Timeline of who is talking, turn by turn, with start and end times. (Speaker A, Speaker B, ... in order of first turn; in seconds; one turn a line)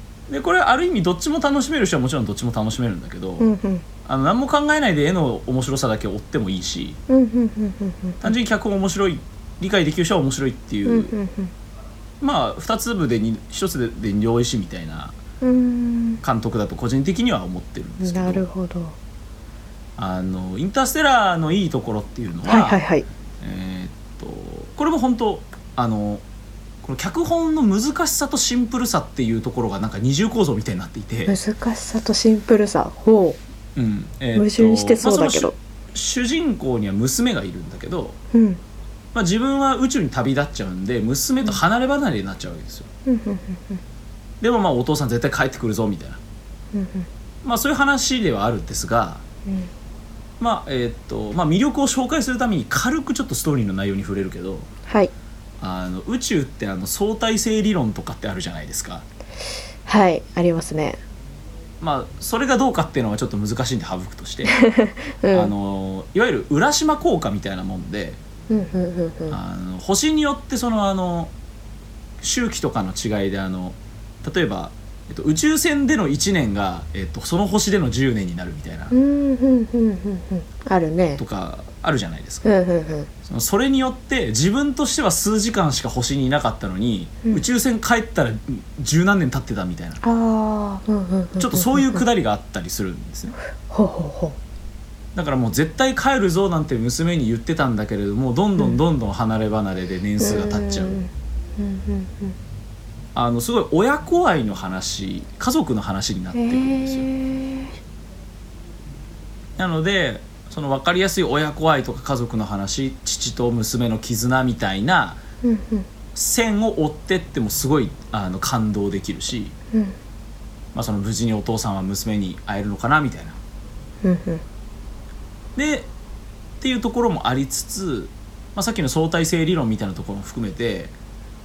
Speaker A: 0.3-3.5
Speaker B: 3.4-3.8
Speaker A: 4.0-7.0
Speaker B: 7.1-8.3
Speaker A: 8.2-11.1
Speaker B: 10.8-11.5
Speaker A: 12.2-15.2
Speaker B: 15.4-16.2
Speaker A: 16.2-18.4
Speaker B: 18.0-18.9
Speaker A: 20.0-22.8
Speaker B: 22.4-23.1
Speaker A: 23.4-26.2
Speaker A: 26.8-31.4
Speaker B: 31.3-33.4
Speaker A: 33.7-38.2
Speaker B: 34.3-35.5
Speaker B: 38.3-38.6
Speaker A: 39.1-42.9
Speaker B: 43.0-43.8
Speaker A: 44.4-46.2
Speaker B: 46.7-47.1
Speaker A: 47.4-49.2
Speaker A: 50.4-54.7
Speaker B: 54.9-55.1
Speaker A: 55.6-59.0
Speaker B: 59.9-61.0
Speaker A: 61.8-64.6
Speaker B: 64.5-65.5
Speaker A: 65.3-68.2
Speaker B: 68.5-69.4
Speaker A: 69.3-71.3
Speaker A: 72.2-78.9
Speaker B: 78.9-81.2
Speaker A: 81.2-82.5
Speaker B: 82.4-83.1
Speaker A: 83.2-90.0
Speaker B: 90.0-92.0
Speaker A: 91.4-93.3
Speaker B: 93.7-94.4
Speaker A: 95.1-101.0
Speaker B: 100.2-102.3
Speaker A: 103.1-107.1
Speaker B: 106.3-107.7
Speaker A: 109.6-115.2
Speaker B: 115.4-115.9
Speaker A: 116.1-119.5
Speaker A: 120.7-123.4
Speaker B: 124.0-124.4
Speaker A: 125.5-125.9
Speaker A: 126.6-130.9